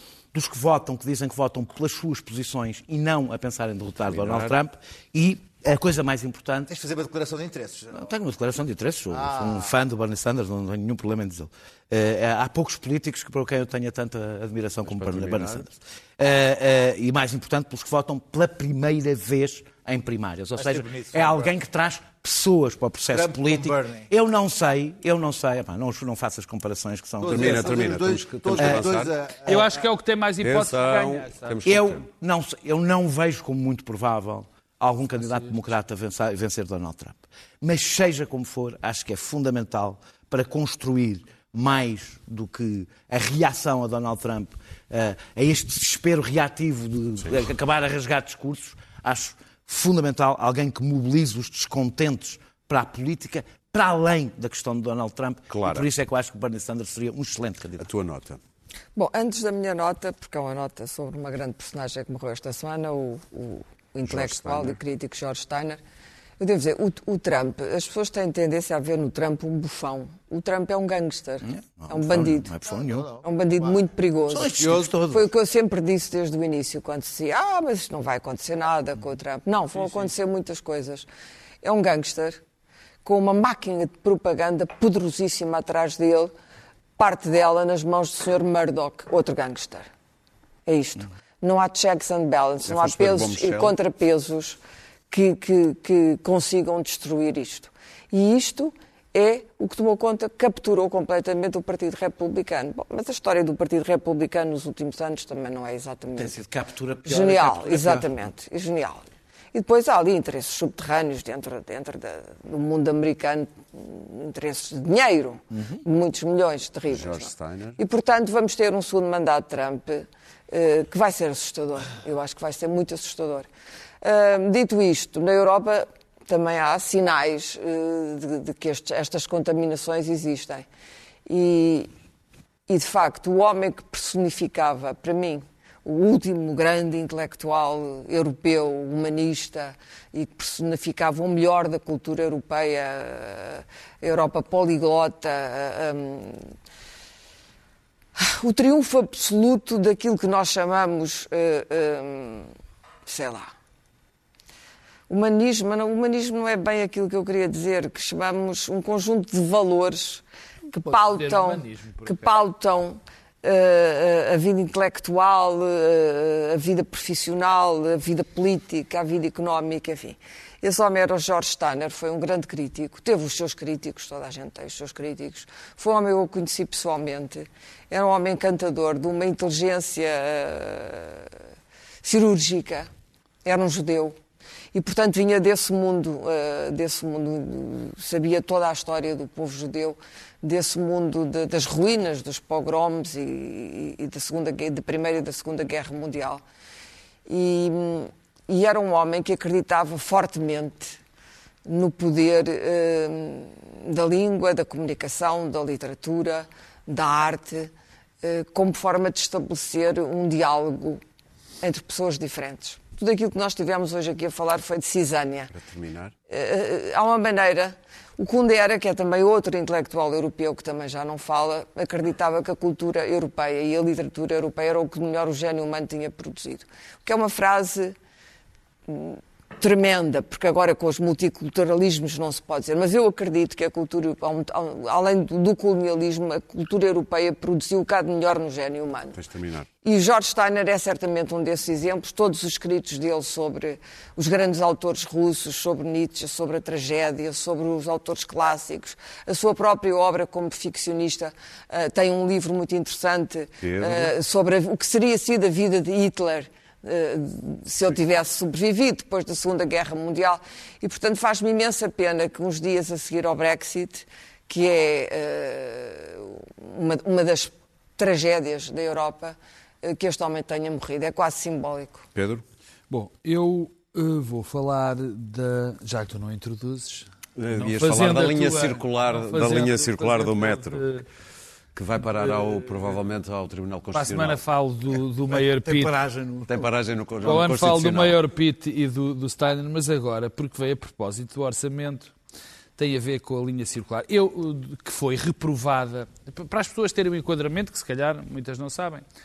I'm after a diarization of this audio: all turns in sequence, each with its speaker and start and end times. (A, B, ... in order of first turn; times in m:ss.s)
0:00.3-0:06.7 A
0:04.0-0:04.6 B
0:06.7-0:08.1 C
0:07.9-0:27.9 A
0:09.1-0:09.7 C
0:14.8-0:15.6 B
0:20.6-0:21.5 C
0:23.1-0:24.1 C
0:27.2-0:29.8 C
0:27.2-0:29.1 B
0:28.5-0:28.9 A
0:29.4-0:31.6 D
0:30.4-0:32.0 B
0:31.6-0:57.9 A
0:35.2-0:35.5 D
0:55.5-0:55.9 B
0:57.8-0:58.4 B
0:58.9-1:05.8 E
1:04.0-1:04.8 B
1:06.4-1:12.5 E
1:11.4-1:13.1 A
1:12.7-1:13.8 C
1:13.2-1:21.1 E
1:14.3-1:15.3 A
1:14.6-1:14.9 C
1:21.6-1:22.4 E
1:23.0-1:26.3 E
1:27.0-1:29.9 E
1:30.6-1:34.6 E
1:32.7-1:33.8 B
1:35.1-1:46.4 E
1:46.2-1:48.1 A
1:47.0-2:03.5 E
1:55.5-1:55.8 A
1:56.9-1:57.8 B
2:04.0-2:10.6 E
2:11.2-2:11.9 E
2:12.7-2:26.5 E
2:28.2-2:32.5 E
2:33.0-2:33.5 E
2:35.1-3:01.3 E
2:40.8-2:42.3 D
3:02.0-3:02.9 E
3:03.4-3:04.2 E
3:04.7-3:16.4 E
3:17.3-3:21.0 E
3:21.6-3:31.0 E
3:31.6-3:35.5 E
3:35.5-3:36.1 B
3:36.3-3:48.0 E
3:48.9-3:59.2 E
3:59.1-3:59.7 B
3:59.8-4:32.0 E
4:13.6-4:14.1 B
4:32.1-4:32.4 B
4:32.9-4:41.0 D
4:37.4-4:40.9 B
4:41.7-4:44.4 B
4:42.1-4:43.0 D
4:43.9-4:45.9 D
4:45.3-4:46.7 A
4:46.5-4:48.2 B
4:47.2-4:52.1 D
4:52.8-4:59.0 D